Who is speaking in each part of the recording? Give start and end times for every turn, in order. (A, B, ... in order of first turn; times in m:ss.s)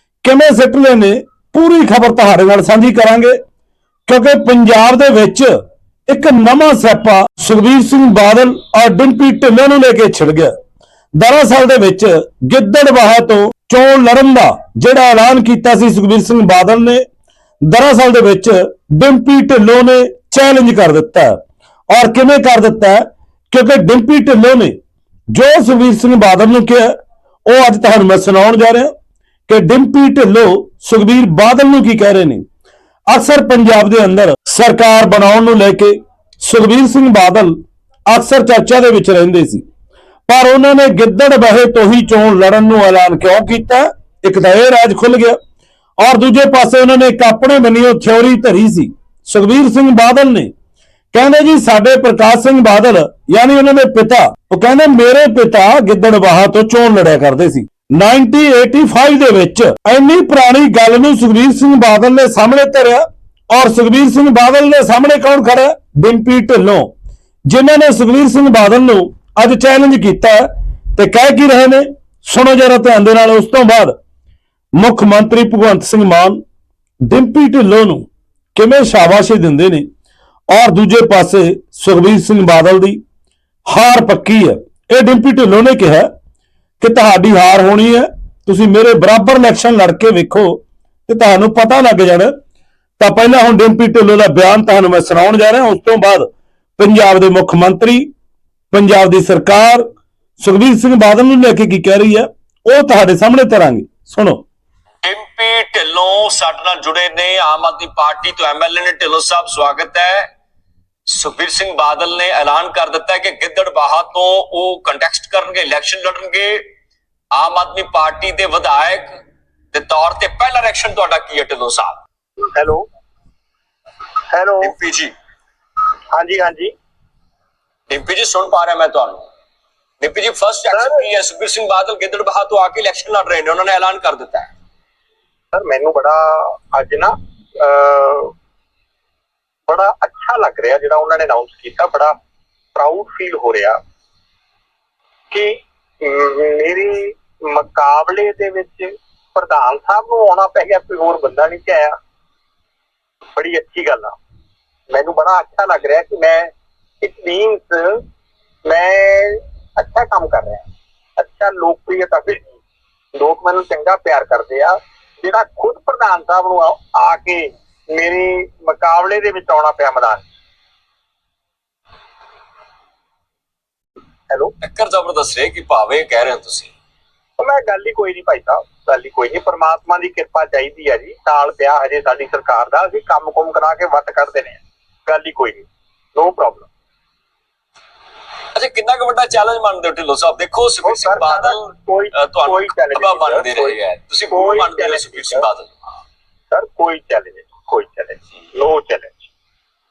0:00.2-0:03.4 A
0:04.1-0:05.5 A
0:06.1-0:10.5 A
0:11.2-0:17.0 A
0:17.6-0:24.8 A
0:25.3-0:26.9 A
0:27.5-0:28.9 A
0:29.5-0:32.4 A
0:33.1-0:37.6 A
0:38.1-0:39.6 A
0:40.3-0:45.4 A
0:46.0-0:50.5 A
0:51.1-1:06.9 A
1:07.5-1:13.9 A
1:14.8-1:16.4 A
1:17.1-1:19.8 A
1:20.5-1:23.0 A
1:23.7-1:26.1 A
1:26.8-1:32.3 A
1:33.0-1:38.0 A
1:38.7-1:39.8 A
1:40.4-1:44.4 A
1:45.0-1:50.3 B
1:51.1-1:56.7 B
1:57.3-1:59.1 B
1:59.7-2:02.0 B
2:02.4-2:02.8 C
2:04.3-2:04.7 C
2:04.6-2:05.1 B
2:06.1-2:06.7 C
2:07.9-2:09.2 B
2:10.0-2:14.5 B
2:10.7-2:11.0 C
2:15.5-2:18.3 C
2:19.7-2:22.1 C
2:22.7-2:23.8 C
2:25.3-2:31.9 C
2:33.4-2:34.1 C
2:34.9-2:36.5 C
2:37.0-2:38.0 C
2:38.6-2:40.6 C
2:41.2-2:42.5 C
2:43.1-2:50.2 C
2:54.6-2:56.7 B
2:57.4-3:06.7 C
3:08.5-3:11.6 B
3:10.8-3:13.8 C
3:12.1-3:15.9 B
3:14.3-3:15.4 C
3:16.5-3:19.2 C